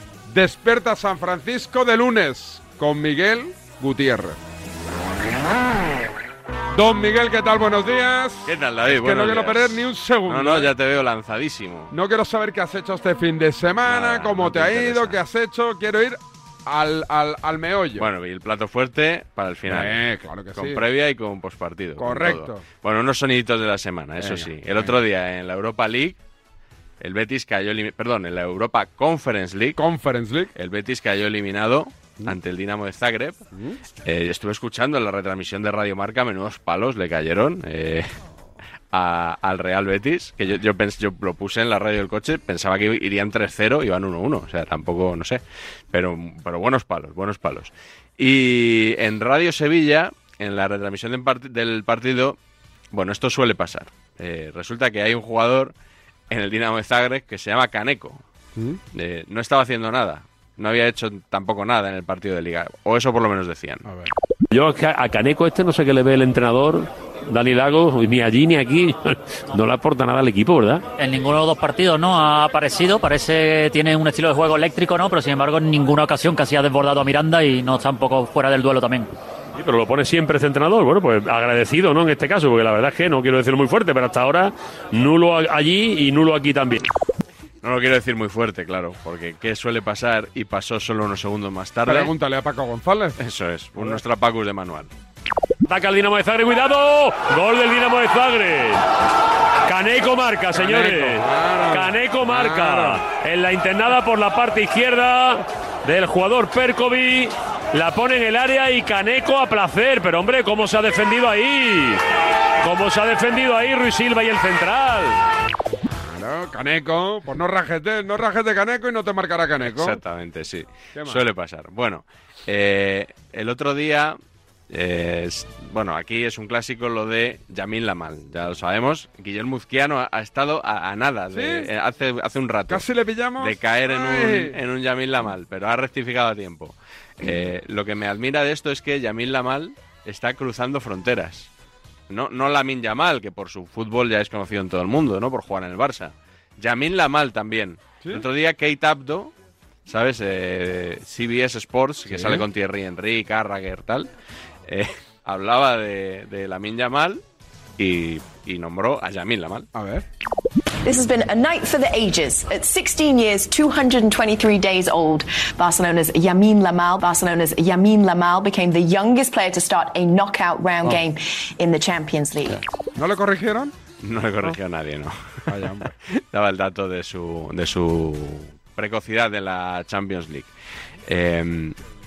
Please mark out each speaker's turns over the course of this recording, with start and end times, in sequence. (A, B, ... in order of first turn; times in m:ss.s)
0:00.3-0:04.4 A
0:06.8-0:10.7 A
0:08.5-0:11.9 B
0:11.9-0:18.1 A
0:13.9-0:15.2 B
0:18.0-0:26.2 B
0:19.7-0:20.8 A
0:22.0-0:22.6 A
0:24.2-0:25.0 A
0:27.0-0:29.8 B
0:29.8-0:30.5 A
0:30.6-0:33.4 B
0:33.5-0:33.8 A
0:34.0-0:38.2 B
0:38.9-0:52.4 B
0:52.9-0:55.7 B
0:56.3-0:58.2 B
0:58.9-1:03.8 B
1:11.0-1:19.1 C
1:19.6-1:26.8 D
1:27.6-1:32.1 B
1:31.8-1:33.2 A
1:33.2-1:34.9 B
1:33.8-1:34.0 A
1:35.7-1:38.8 D
1:39.7-1:52.0 D
1:40.5-1:43.0 A
1:52.6-1:55.2 D
1:56.0-2:00.0 A
1:59.6-2:04.2 B
2:01.0-2:01.2 A
2:04.7-2:21.5 B
2:11.3-2:11.7 A
2:12.7-2:14.6 A
2:22.1-2:29.3 B
2:29.9-2:34.1 B
2:32.1-2:32.4 A
2:34.7-2:37.2 B
2:37.8-2:39.7 B
2:39.8-2:40.0 A
2:40.8-2:52.6 E
2:53.0-2:53.7 A
2:54.0-2:55.2 B
2:55.5-2:55.9 A
2:56.3-3:00.5 B
3:01.1-3:01.8 B